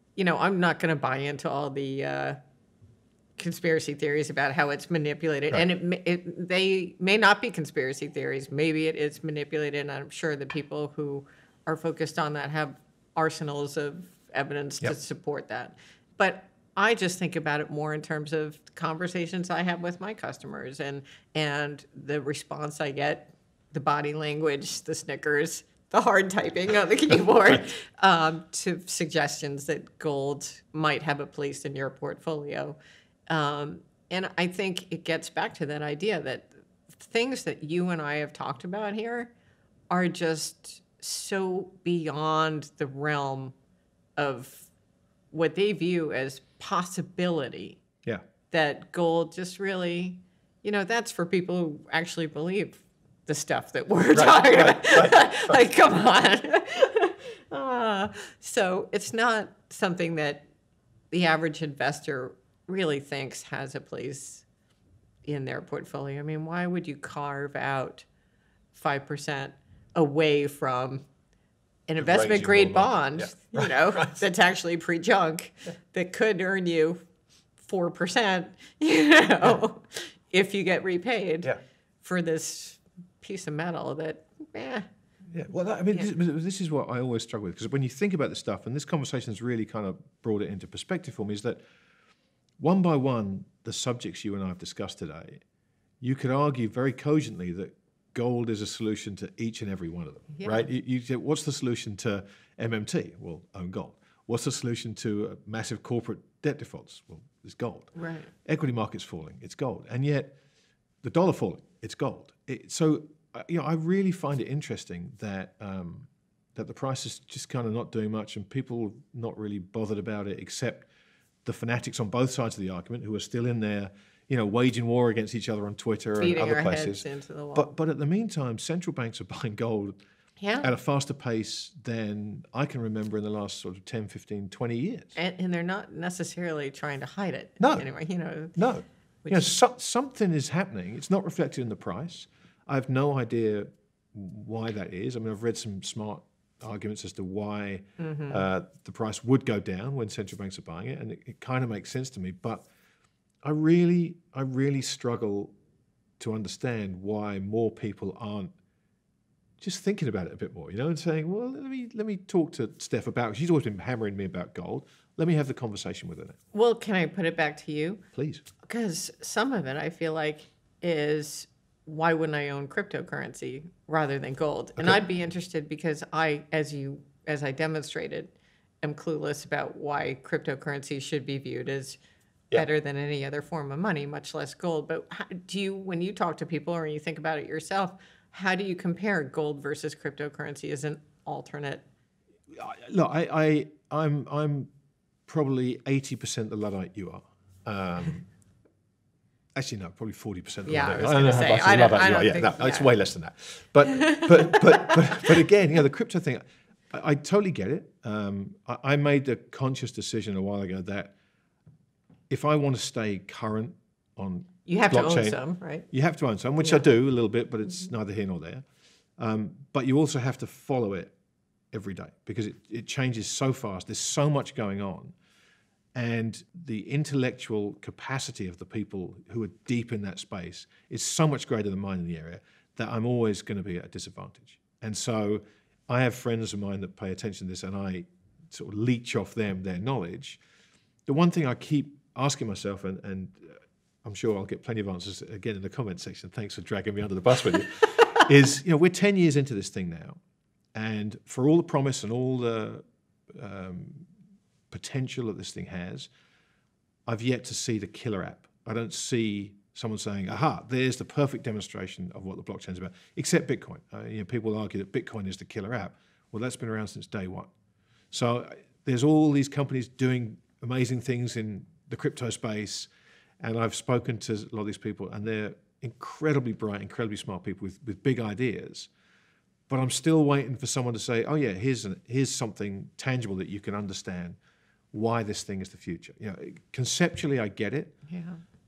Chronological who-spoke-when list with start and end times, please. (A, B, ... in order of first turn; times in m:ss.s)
0:00.2-0:02.4 A
0:03.4-0:32.8 A
0:33.3-0:39.3 A
0:39.9-0:43.5 A
0:44.2-0:44.7 A
0:45.3-0:47.8 A
0:48.5-1:00.4 A
0:54.1-0:55.6 B
1:01.1-1:04.4 A
1:05.2-1:08.0 A
1:08.7-1:11.0 A
1:11.9-1:17.0 A
1:12.0-1:14.2 B
1:17.6-1:24.8 A
1:25.3-1:31.6 B
1:32.6-1:35.4 B
1:36.0-1:50.4 B
1:40.3-1:40.7 A
1:47.9-1:48.3 A
1:51.0-2:00.9 B
2:01.4-2:10.0 B
2:06.2-2:07.7 A
2:10.4-2:10.7 A
2:10.6-2:15.2 B
2:15.1-2:18.5 A
2:17.6-2:17.8 B
2:18.5-2:32.7 B
2:19.2-2:19.5 A
2:28.0-2:28.4 A
2:33.4-2:35.5 B
2:36.2-2:38.5 B
2:39.6-2:46.4 B
2:46.5-2:48.0 A
2:48.1-2:48.4 B
2:48.6-3:02.0 A
3:02.5-3:11.8 A
3:12.5-3:14.7 B
3:15.3-3:18.2 B
3:19.5-3:31.1 B
3:20.6-3:23.0 A
3:23.9-3:25.4 A
3:32.3-3:38.6 B
3:34.6-3:35.9 A
3:39.2-3:41.1 B
3:41.7-3:45.1 B
3:45.9-4:00.4 B
4:01.1-4:10.2 B
4:10.7-4:14.1 B
4:14.7-4:16.1 B
4:17.1-4:27.5 B
4:28.1-4:32.9 B
4:33.4-4:38.9 B
4:39.7-4:44.4 B
4:44.9-4:47.9 B
4:48.1-4:48.4 A